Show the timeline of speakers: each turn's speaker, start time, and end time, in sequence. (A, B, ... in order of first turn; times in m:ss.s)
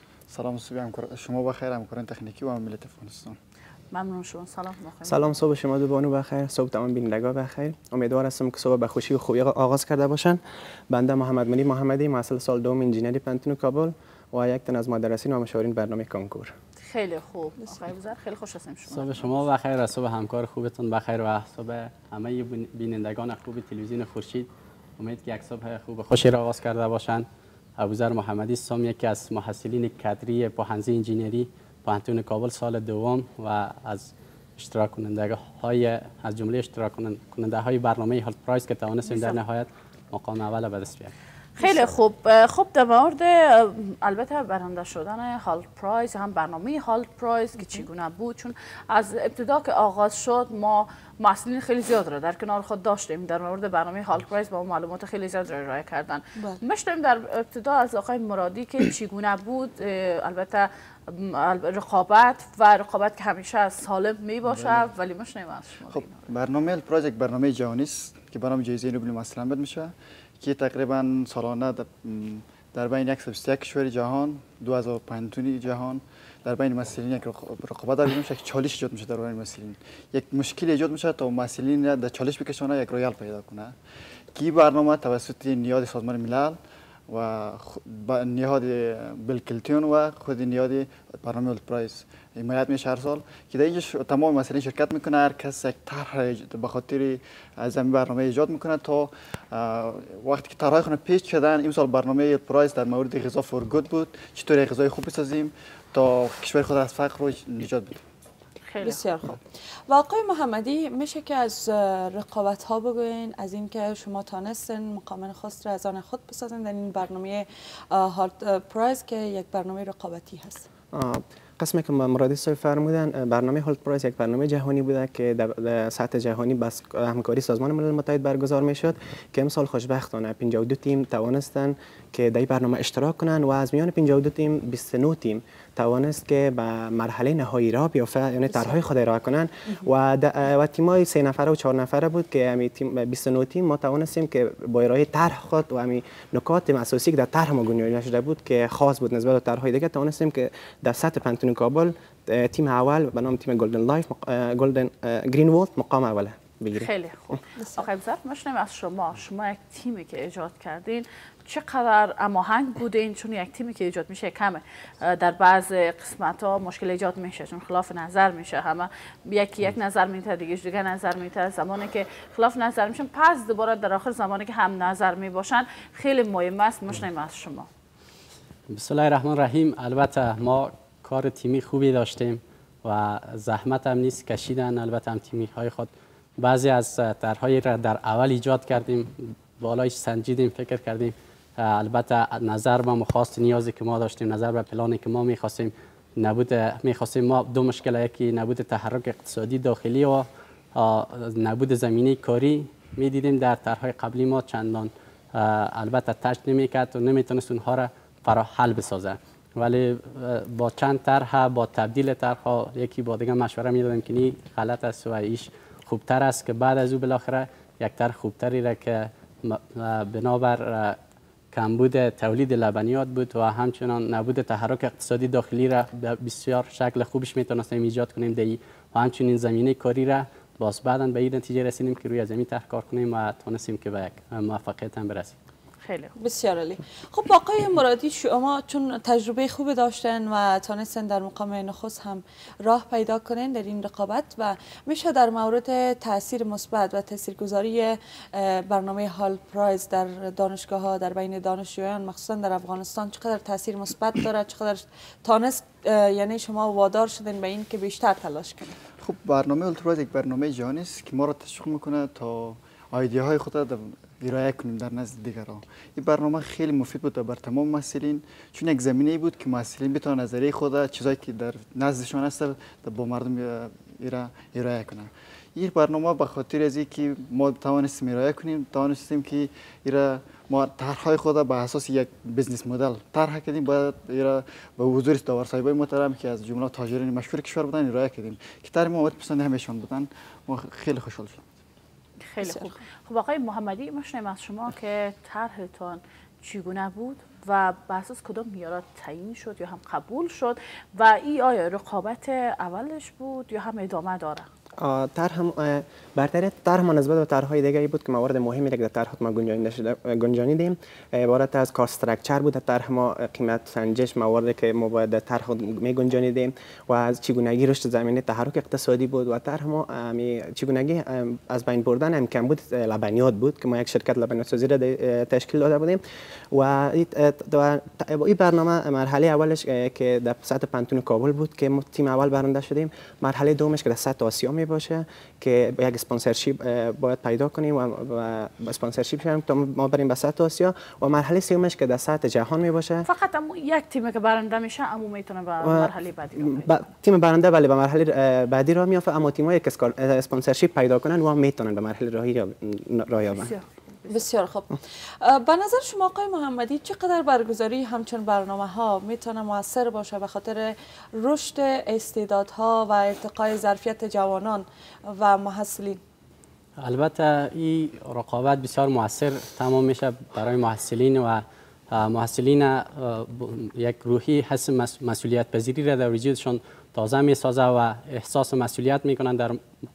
0:00.3-0:03.4 A
0:03.9-0:05.3 B
0:05.0-0:10.4 C
0:10.9-0:16.5 C
0:16.8-0:19.4 B
0:18.9-0:27.2 D
0:27.8-0:41.1 D
0:39.1-0:39.4 B
0:41.6-1:06.3 B
1:04.5-1:04.9 A
1:05.9-1:23.8 A
1:24.3-1:26.6 A
1:27.1-1:48.0 A
1:48.7-1:49.0 B
1:48.8-2:00.7 E
2:00.9-2:36.9 C
2:36.8-2:57.7 B
2:58.7-3:41.0 D
3:41.5-3:55.4 D
3:55.8-3:56.2 B
3:56.2-4:18.8 E
4:19.0-4:51.4 A
4:52.3-5:04.5 B
4:52.4-4:52.7 E
5:04.8-5:26.0 C
5:26.5-5:43.1 C
5:43.1-5:46.8 B
5:45.6-5:53.5 C
5:53.3-5:54.2 B
5:54.1-6:06.0 E
6:06.8-6:19.6 D